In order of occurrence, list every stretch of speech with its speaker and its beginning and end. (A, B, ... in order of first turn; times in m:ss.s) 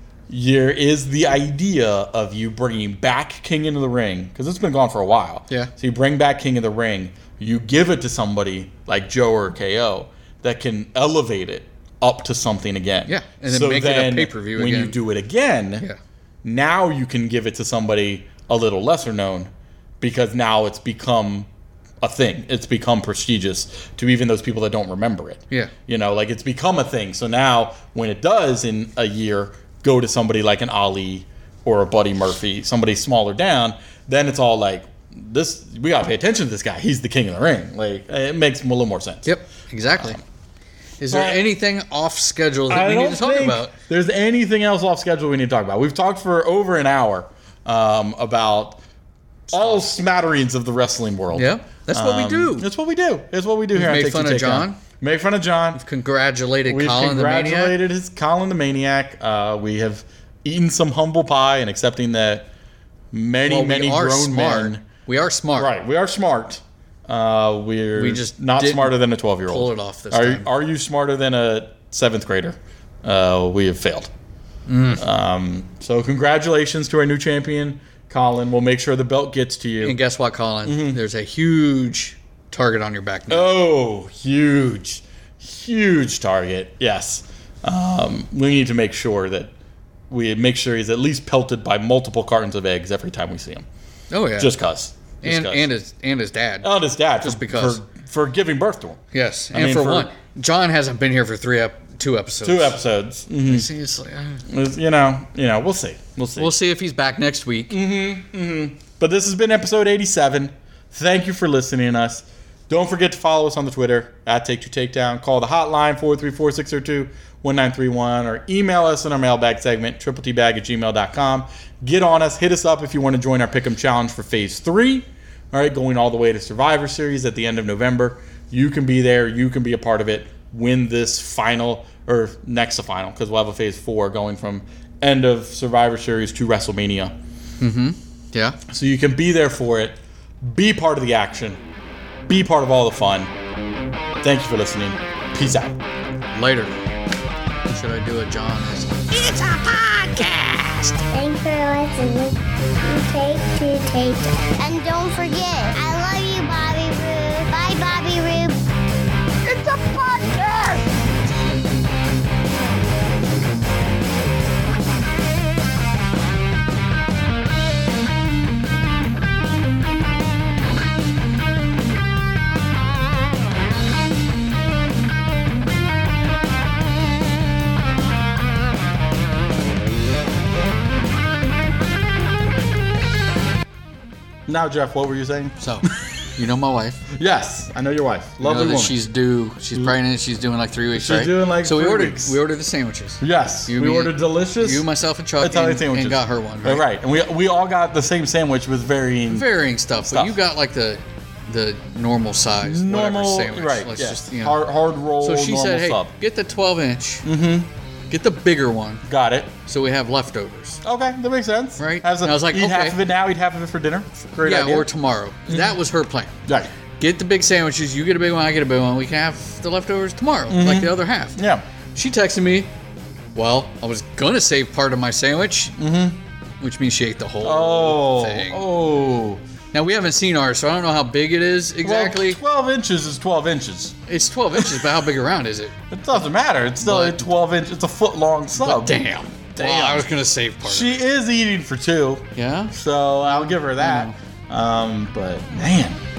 0:00.3-0:15.8 A
0:13.1-0:15.0 B
0:16.4-0:21.5 A
0:22.0-0:39.3 A
0:39.2-0:40.2 B
0:41.0-0:43.7 B
0:41.1-0:41.4 A
0:42.7-0:48.8 A
0:49.5-0:55.8 A
0:51.3-0:52.7 B
0:53.7-0:54.8 B
0:55.8-0:57.8 B
0:56.6-1:02.5 A
1:03.1-1:04.8 A
1:03.4-1:05.7 B
1:05.6-1:14.1 A
1:08.0-1:09.0 B
1:09.5-1:10.5 B
1:14.7-1:15.0 B
1:15.0-1:20.0 A
1:19.8-1:23.5 B
1:20.6-1:21.0 A
1:23.3-1:29.5 A
1:30.1-1:33.6 A
1:34.1-1:34.5 B
1:34.4-1:35.7 A
1:35.2-1:37.8 B
1:36.6-1:39.0 A
1:39.1-1:42.8 B
1:39.5-1:40.1 A
1:42.4-1:43.7 A
1:43.4-1:44.4 B
1:44.5-1:46.5 A
1:46.4-1:47.8 B
1:47.7-2:17.2 A
2:17.6-2:18.6 B
2:18.7-2:21.6 A
2:22.3-2:23.3 A
2:24.2-2:25.8 A
2:26.3-2:26.8 B
2:27.7-2:31.0 B
2:29.2-2:38.6 C
2:39.4-2:40.9 C
3:04.5-3:06.1 A
3:05.6-3:07.0 B
3:07.1-3:09.0 A
3:08.4-3:16.8 B
3:10.9-3:12.4 A
3:13.2-3:14.8 A
3:15.4-3:19.5 A
3:19.3-3:24.6 B
3:20.0-3:20.4 A
3:22.6-3:26.1 A
3:25.2-3:27.2 B
3:27.2-3:27.7 A
3:28.1-3:29.0 B
3:29.0-3:29.5 A
3:29.6-3:30.8 B
3:30.8-3:34.9 A
3:31.8-3:33.0 B
3:34.4-3:36.3 B
3:36.4-3:36.7 A
3:37.0-3:41.4 B
3:40.5-3:41.6 A
3:41.9-3:42.7 B
3:43.3-3:45.8 B
3:45.8-3:46.2 A
3:46.6-3:48.6 B
3:47.4-3:49.4 A
3:49.7-3:52.4 B
3:51.8-3:54.0 A
3:54.1-3:55.7 B
3:54.5-3:54.9 A
3:55.9-3:59.0 A
3:56.8-3:57.3 B
3:58.6-4:01.0 B
3:59.6-4:00.1 A
4:00.6-4:06.0 A
4:02.4-4:02.7 B
4:03.3-4:04.1 B